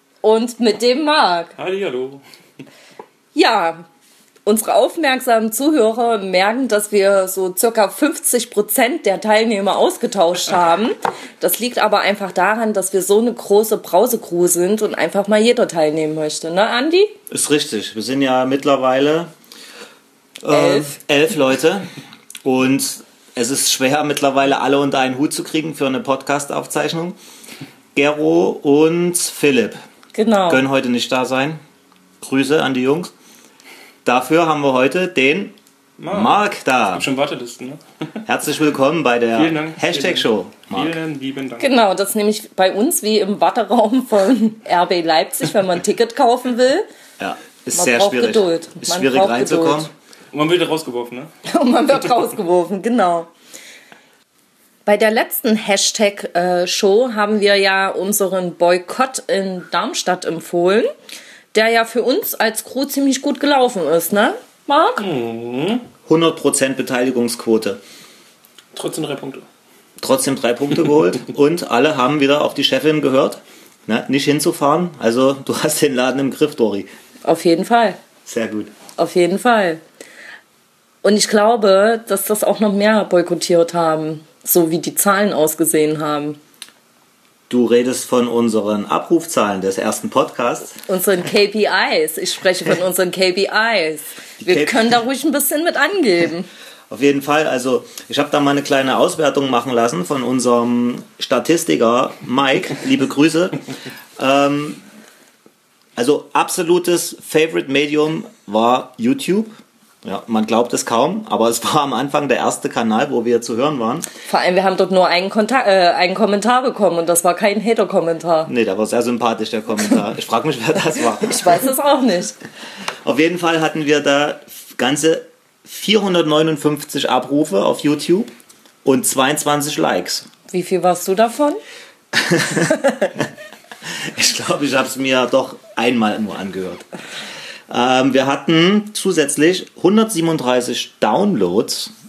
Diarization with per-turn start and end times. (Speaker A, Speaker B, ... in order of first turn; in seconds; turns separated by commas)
Speaker A: 0.2-1.6, Speaker B: 1.6-2.2, Speaker A: 3.4-3.9, Speaker A: 4.5-17.1, Speaker C: 17.3-19.3, Speaker C: 20.4-21.9, Speaker A: 20.5-21.0, Speaker C: 22.4-27.2, Speaker C: 27.9-29.8, Speaker A: 30.1-30.6, Speaker C: 30.5-31.6, Speaker C: 32.2-33.1, Speaker C: 34.0-35.6, Speaker B: 36.0-37.8, Speaker C: 36.1-37.1, Speaker C: 38.3-41.0, Speaker B: 39.4-41.7, Speaker A: 41.6-46.9, Speaker C: 47.2-49.9, Speaker A: 47.8-49.9, Speaker B: 50.3-51.3, Speaker A: 51.5-53.3, Speaker A: 54.9-60.9, Speaker A: 61.5-65.0, Speaker B: 65.0-65.8, Speaker C: 66.1-67.8, Speaker B: 68.7-69.5, Speaker C: 70.0-76.9, Speaker A: 77.2-78.0, Speaker C: 78.3-78.7, Speaker A: 79.0-79.8, Speaker A: 81.0-86.4, Speaker C: 87.5-90.8, Speaker A: 90.9-96.5, Speaker C: 94.4-95.0, Speaker C: 96.9-103.6, Speaker C: 104.2-104.8, Speaker C: 106.0-114.1, Speaker A: 114.3-118.5, Speaker C: 118.5-121.6, Speaker A: 121.2-122.4, Speaker C: 123.0-128.3, Speaker C: 128.8-130.3, Speaker A: 130.5-131.6, Speaker C: 132.1-133.3, Speaker A: 132.8-133.1, Speaker C: 133.9-136.8, Speaker C: 137.7-141.9